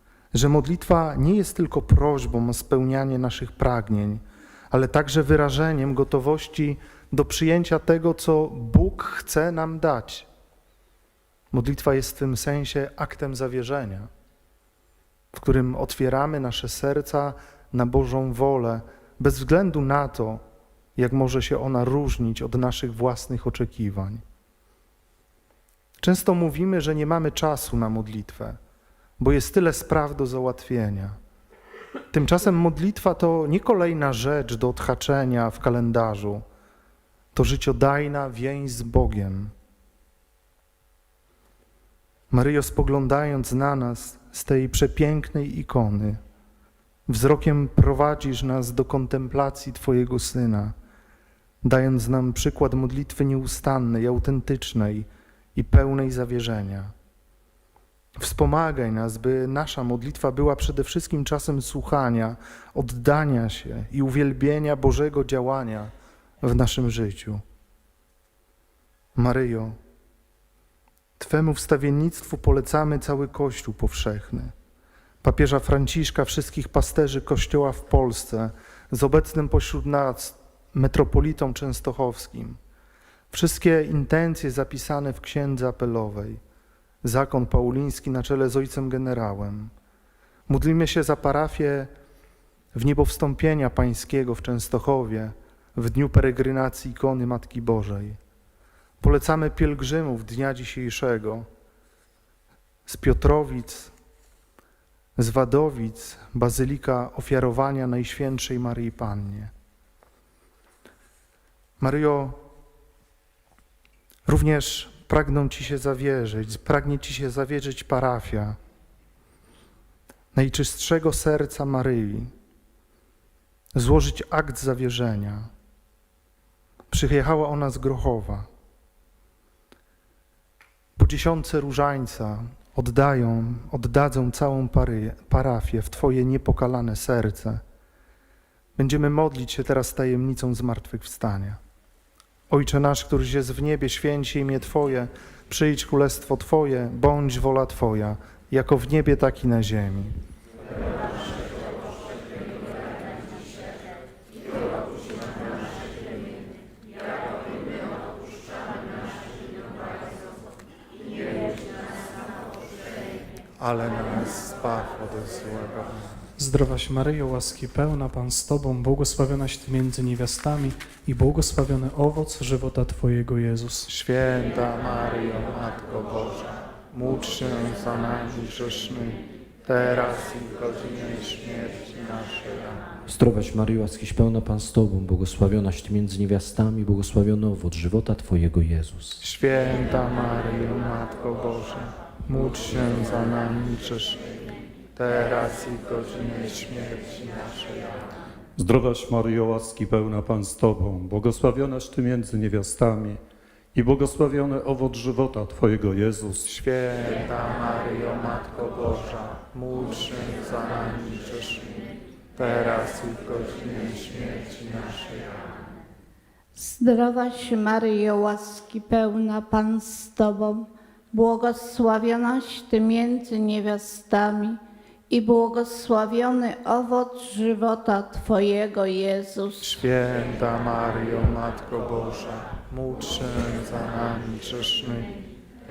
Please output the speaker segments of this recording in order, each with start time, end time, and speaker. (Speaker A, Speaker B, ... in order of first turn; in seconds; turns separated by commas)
Speaker A: 0.3-10.3, Speaker A: 11.5-14.1, Speaker A: 15.3-20.4, Speaker A: 21.0-24.2, Speaker A: 26.0-28.6, Speaker A: 29.2-31.2, Speaker A: 32.1-36.5, Speaker A: 37.3-39.5, Speaker A: 42.3-46.2, Speaker A: 47.1-50.8, Speaker A: 51.6-56.9, Speaker A: 58.2-67.4, Speaker A: 69.2-69.8, Speaker A: 71.2-74.5, Speaker A: 75.2-82.6, Speaker A: 83.3-86.4, Speaker A: 87.0-89.7, Speaker A: 90.5-91.9, Speaker A: 92.7-98.2, Speaker A: 99.0-101.5, Speaker A: 102.9-103.9, Speaker A: 105.2-109.5, Speaker A: 111.8-112.4, Speaker A: 114.3-118.6, Speaker A: 120.3-122.3, Speaker A: 123.7-125.5, Speaker A: 126.9-128.5, Speaker A: 131.0-137.6, Speaker A: 138.8-141.6, Speaker A: 142.5-150.2, Speaker A: 163.6-166.3, Speaker B: 166.4-173.9, Speaker A: 173.9-182.8, Speaker C: 183.1-189.2, Speaker A: 189.2-194.3, Speaker A: 194.9-198.0, Speaker D: 198.6-203.2, Speaker D: 203.7-206.4, Speaker A: 206.4-211.7, Speaker A: 212.3-215.3, Speaker E: 216.6-224.6, Speaker E: 225.1-229.7, Speaker A: 229.6-235.2